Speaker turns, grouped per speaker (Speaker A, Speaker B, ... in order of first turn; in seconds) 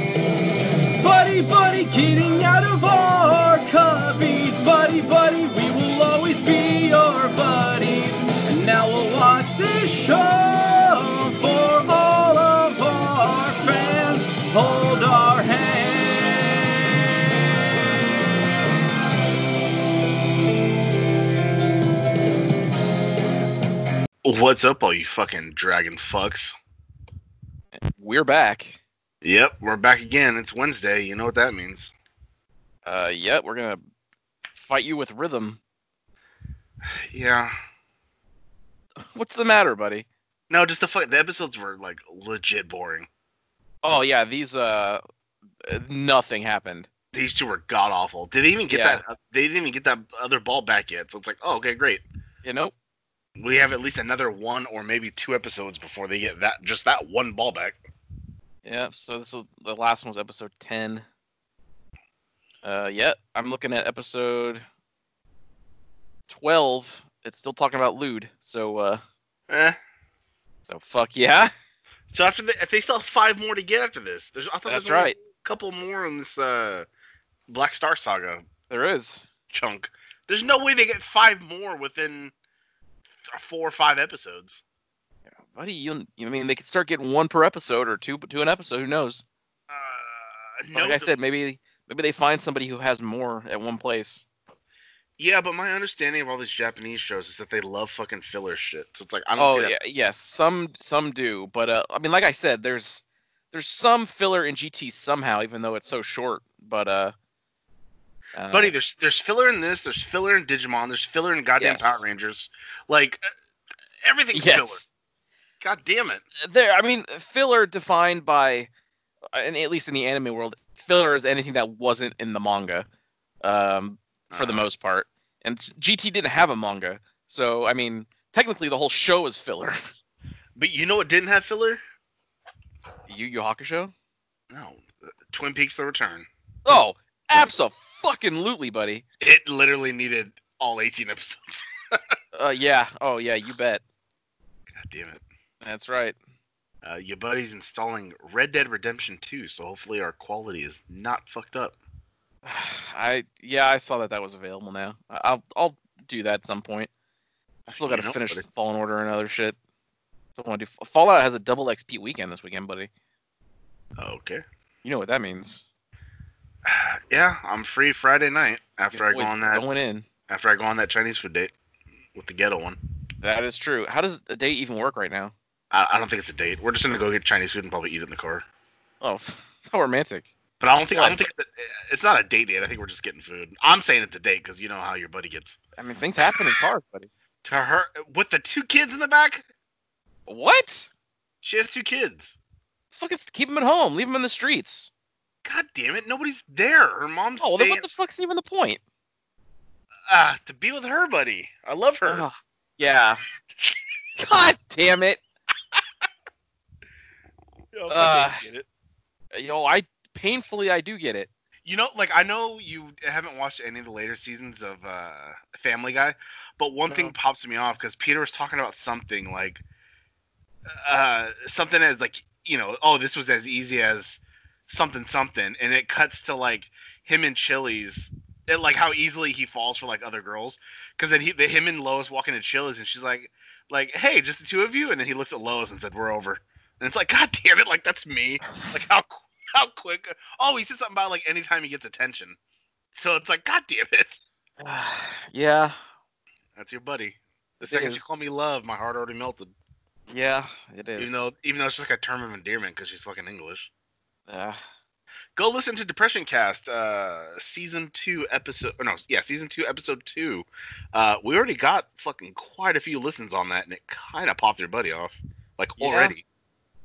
Speaker A: 1.0-16.7
Speaker B: 24.2-26.5, 29.2-31.9, 37.1-37.5, 40.5-43.1, 47.1-52.0, 53.4-57.8, 69.5-69.8, 72.1-76.9, 77.5-78.5, 79.5-82.3, 83.4-84.6, 89.7-91.2, 95.2-99.8, 108.5-113.2, 114.0-114.8, 115.6-116.2, 124.3-124.7, 130.6-131.8, 134.5-136.3, 139.2-141.7, 144.7-145.2, 146.8-151.8, 157.8-158.4, 164.0-164.4, 166.7-169.7, 170.3-171.5, 172.2-172.8, 175.7-178.4, 180.6-185.6, 187.4-189.4, 191.4-192.4, 195.4-197.9, 200.1-202.3, 207.7-208.7, 211.7-219.6, 220.7-242.4, 243.0-244.2, 246.6-249.5, 251.0-253.7, 255.4-266.2
Speaker C: 27.9-28.8, 32.9-33.8, 34.5-35.6, 39.1-40.1, 43.8-45.0, 45.6-46.9, 48.7-49.0, 52.4-52.7, 58.6-61.1, 62.6-64.6, 66.3-69.0, 70.7-71.5, 74.7-75.2, 78.7-79.2, 85.3-89.2, 90.8-94.2, 99.4-107.1, 108.4-108.7, 111.6-112.0, 114.3-114.9, 116.4-118.7, 119.3-122.9, 123.4-129.9, 133.1-133.9, 136.7-139.1, 142.3-143.8, 145.6-146.2, 152.4-156.9, 157.7-159.6, 160.3-162.9, 164.8-165.6, 168.9-170.1, 173.2-175.3, 179.0-180.3, 180.9-181.2, 185.8-187.1, 190.3-190.9, 192.9-194.9, 197.4-198.8, 202.1-203.2, 204.2-205.2, 207.9-208.5, 209.3-211.3, 216.9-217.2, 244.6-245.8, 247.6-248.1, 250.1-251.2, 254.3-254.6, 265.8-266.2